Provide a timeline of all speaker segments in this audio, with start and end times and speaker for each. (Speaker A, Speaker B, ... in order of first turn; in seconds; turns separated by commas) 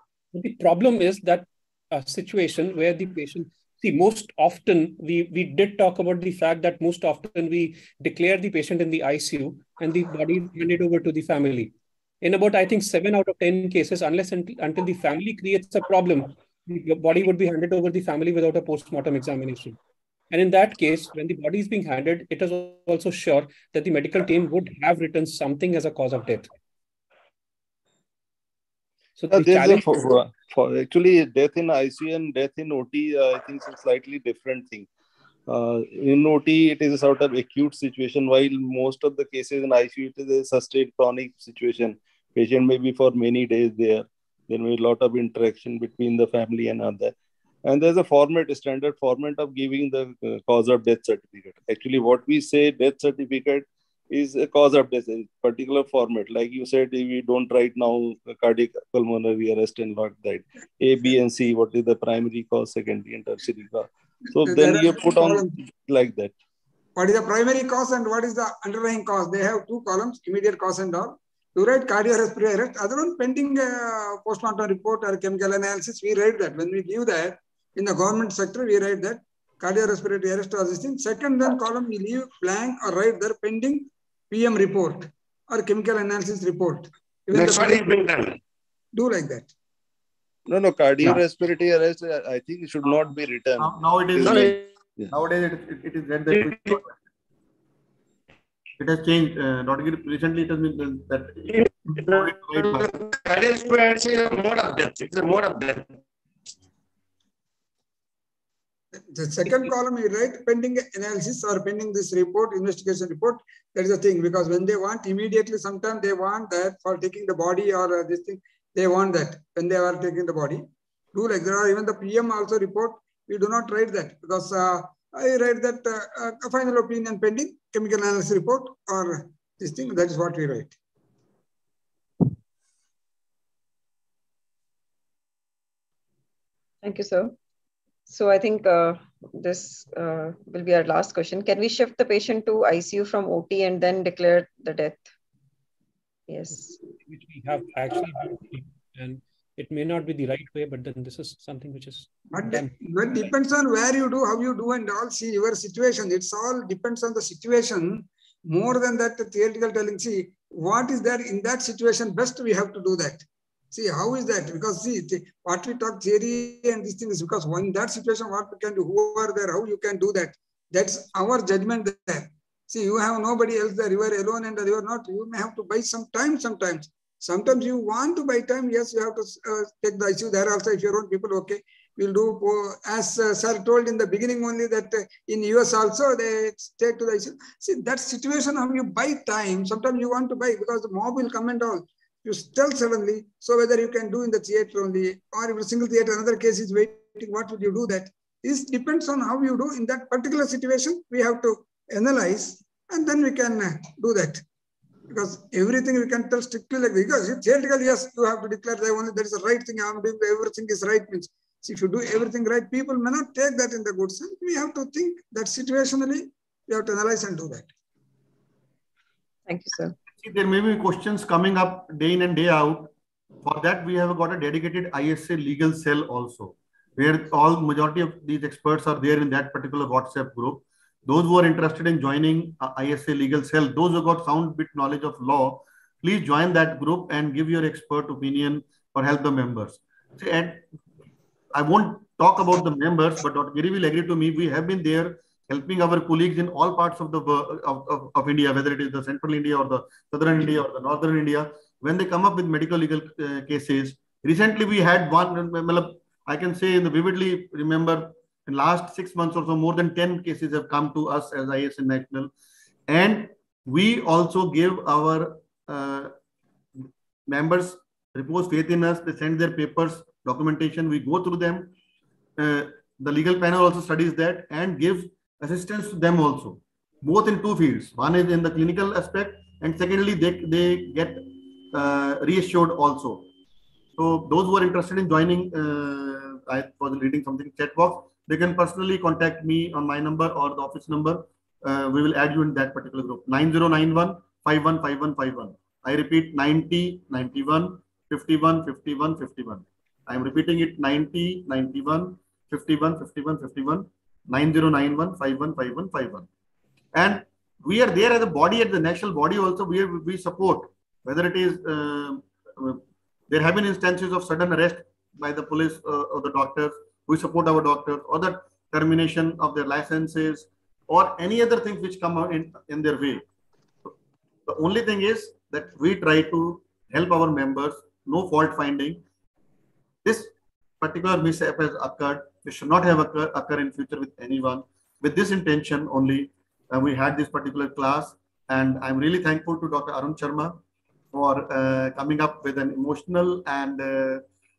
Speaker A: 0.3-19.8, Speaker A: 20.3-26.5, Speaker A: 29.2-30.1, Speaker B: 29.3-34.9, Speaker B: 35.5-66.3, Speaker C: 64.4-65.5, Speaker C: 67.0-87.8, Speaker D: 87.3-88.4, Speaker C: 88.9-89.5, Speaker B: 90.5-95.1, Speaker E: 93.6-94.6, Speaker D: 94.2-94.6, Speaker E: 95.1-96.9, Speaker D: 96.4-96.8, Speaker E: 98.8-102.9, Speaker D: 101.5-106.0, Speaker C: 109.1-130.7, Speaker F: 136.8-137.3, Speaker F: 138.1-145.1, Speaker F: 146.3-146.8, Speaker A: 146.5-152.7, Speaker C: 152.3-204.4, Speaker C: 205.1-217.7, Speaker F: 219.5-219.9, Speaker E: 220.2-222.9, Speaker E: 223.4-240.7, Speaker E: 241.5-262.3, Speaker E: 262.9-266.1, Speaker E: 267.3-271.7, Speaker E: 272.4-283.3, Speaker E: 284.0-306.3, Speaker E: 306.9-323.2, Speaker E: 324.5-329.0, Speaker E: 330.1-340.6, Speaker E: 341.1-344.2